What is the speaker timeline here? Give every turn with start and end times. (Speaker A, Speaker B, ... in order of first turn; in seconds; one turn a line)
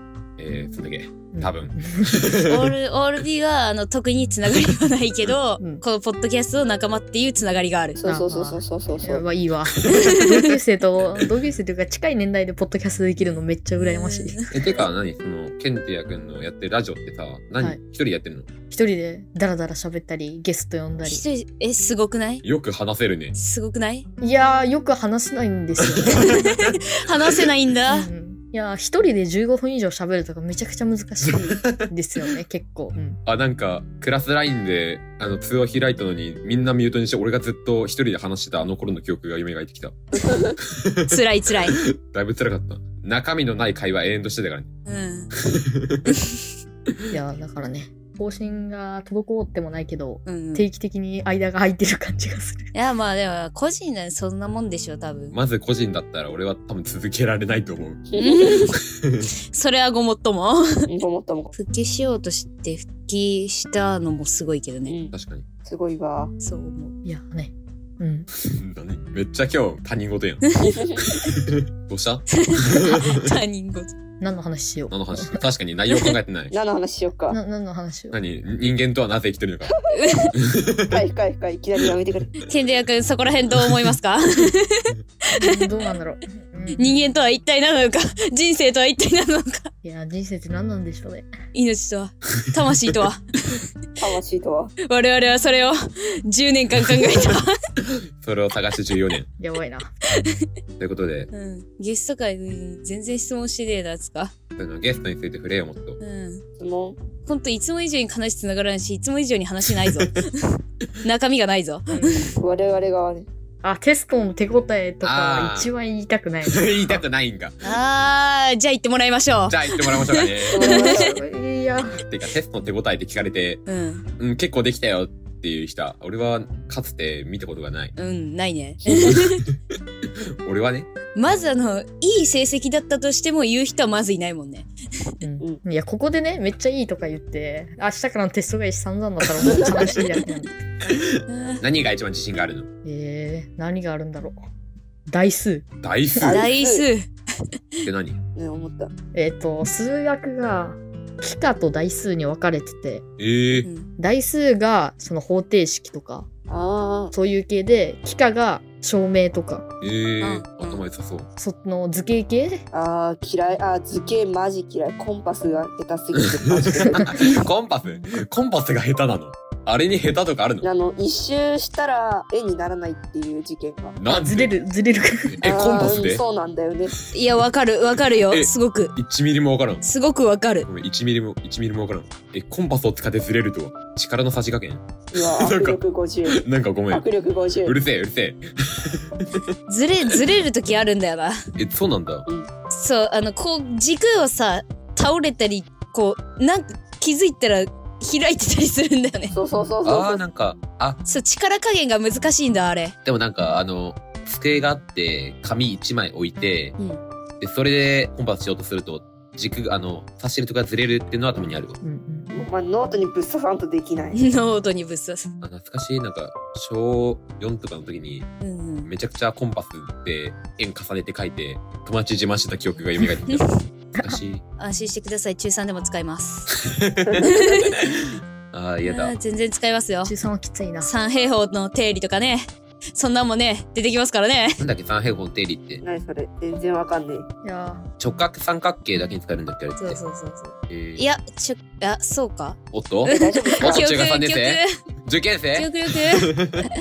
Speaker A: 0.4-2.7
Speaker B: 1.3-2.3
Speaker C: 2.4-8.0
Speaker D: 8.0-9.2
Speaker B: 8.0-14.4
Speaker C: 10.0-10.5
Speaker C: 13.8-14.7
Speaker A: 14.5-18.5
Speaker B: 18.7-21.2
Speaker C: 21.0-22.4
Speaker A: 22.4-23.3
Speaker C: 23.3-24.1
Speaker B: 24.2-26.2
Speaker A: 26.0-26.4
Speaker C: 26.1-28.1
Speaker B: 27.9-33.2
Speaker A: 31.2-31.9
Speaker A: 33.2-40.1
Speaker D: 40.1-40.6
Speaker A: 40.6-41.1
Speaker C: 41.1-41.8
Speaker A: 41.8-44.7
Speaker C: 44.9-45.3
Speaker A: 45.5-46.0
Speaker C: 46.1-46.3
Speaker B: 47.1-52.7
Speaker C: 50.2-50.6
Speaker C: 52.7-55.4
Speaker A: 55.3-58.0
Speaker D: 58.1-58.6
Speaker C: 58.2-58.8
Speaker C: 59.5-60.8
Speaker D: 60.9-61.5
Speaker C: 61.5-65.0
Speaker D: 64.8-65.1
Speaker A: 65.1-65.4
Speaker D: 65.6-66.3
Speaker C: 66.4-66.9
Speaker B: 67.0-68.3
Speaker A: 68.5-70.4
Speaker D: 70.6-71.1
Speaker A: 71.0-73.0
Speaker C: 72.3-73.9
Speaker B: 74.2-75.4
Speaker A: 74.9-76.5
Speaker C: 75.9-76.2
Speaker D: 76.5-77.4
Speaker B: 77.3-78.2
Speaker A: 78.1-79.7
Speaker C: 79.9-80.3
Speaker A: 80.4-80.9
Speaker D: 80.9-82.3
Speaker C: 82.5-84.9
Speaker B: 85.4-86.9
Speaker C: 86.7-89.7
Speaker B: 89.8-91.3
Speaker C: 91.5-93.6
Speaker D: 94.0-94.7
Speaker C: 94.8-97.5
Speaker A: 98.2-99.3
Speaker B: 99.4-99.9
Speaker A: 100.8-101.3
Speaker C: 101.3-104.3
Speaker A: 104.5-106.0
Speaker C: 106.0-106.4
Speaker D: 106.6-107.0
Speaker C: 107.2-112.3
Speaker B: 111.9-112.4
Speaker D: 112.4-113.2
Speaker B: 113.6-117.0
Speaker A: 115.0-115.7
Speaker A: 116.4-117.6
Speaker C: 117.6-121.0
Speaker A: 119.5-120.7
Speaker D: 120.5-121.2
Speaker B: 120.6-122.0
Speaker A: 121.9-123.6
Speaker C: 123.7-124.0
Speaker A: 124.2-127.9
Speaker C: 128.0-129.4
Speaker A: 130.4-130.9
Speaker C: 131.1-134.7
Speaker B: 135.2-140.6
Speaker A: 140.8-142.7
Speaker C: 141.3-141.6
Speaker B: 142.8-144.4
Speaker B: 145.1-145.7
Speaker A: 145.8-146.4
Speaker D: 146.2-146.8
Speaker C: 146.2-147.1
Speaker A: 147.8-148.2
Speaker D: 148.3-148.9
Speaker B: 149.1-153.0
Speaker A: 153.2-153.7
Speaker C: 153.6-153.9
Speaker B: 154.0-156.3
Speaker D: 156.5-157.1
Speaker B: 157.1-159.7
Speaker A: 159.8-161.3
Speaker C: 160.2-160.8
Speaker B: 161.3-162.6
Speaker D: 162.7-167.2
Speaker A: 166.5-170.7
Speaker D: 170.6-173.9
Speaker A: 173.9-174.6
Speaker B: 174.1-175.4
Speaker A: 175.3-176.2
Speaker D: 175.4-176.9
Speaker C: 177.1-178.9
Speaker A: 178.2-179.8
Speaker C: 179.8-180.7
Speaker A: 180.7-187.1
Speaker D: 185.1-187.8
Speaker A: 187.6-189.5
Speaker C: 189.7-191.4
Speaker A: 191.6-192.2
Speaker C: 192.7-199.4
Speaker D: 199.3-200.2
Speaker A: 199.8-201.0
Speaker C: 201.0-202.9
Speaker A: 203.0-206.8
Speaker A: 207.4-211.8
Speaker B: 211.8-212.3
Speaker D: 212.3-214.2
Speaker C: 214.1-215.3
Speaker A: 215.4-218.3
Speaker C: 218.4-218.9
Speaker A: 218.8-223.5
Speaker A: 224.0-224.4
Speaker C: 224.6-226.6
Speaker A: 226.6-227.8
Speaker C: 227.2-227.7
Speaker A: 228.5-229.1
Speaker C: 228.8-230.1
Speaker B: 230.0-230.9
Speaker C: 230.8-234.6
Speaker A: 234.6-235.8
Speaker D: 235.8-237.3
Speaker B: 237.4-237.8
Speaker A: 238.0-240.0
Speaker C: 239.8-244.7
Speaker A: 240.7-241.1
Speaker A: 242.7-245.7
Speaker D: 243.1-243.9
Speaker C: 245.5-246.3
Speaker A: 246.2-246.5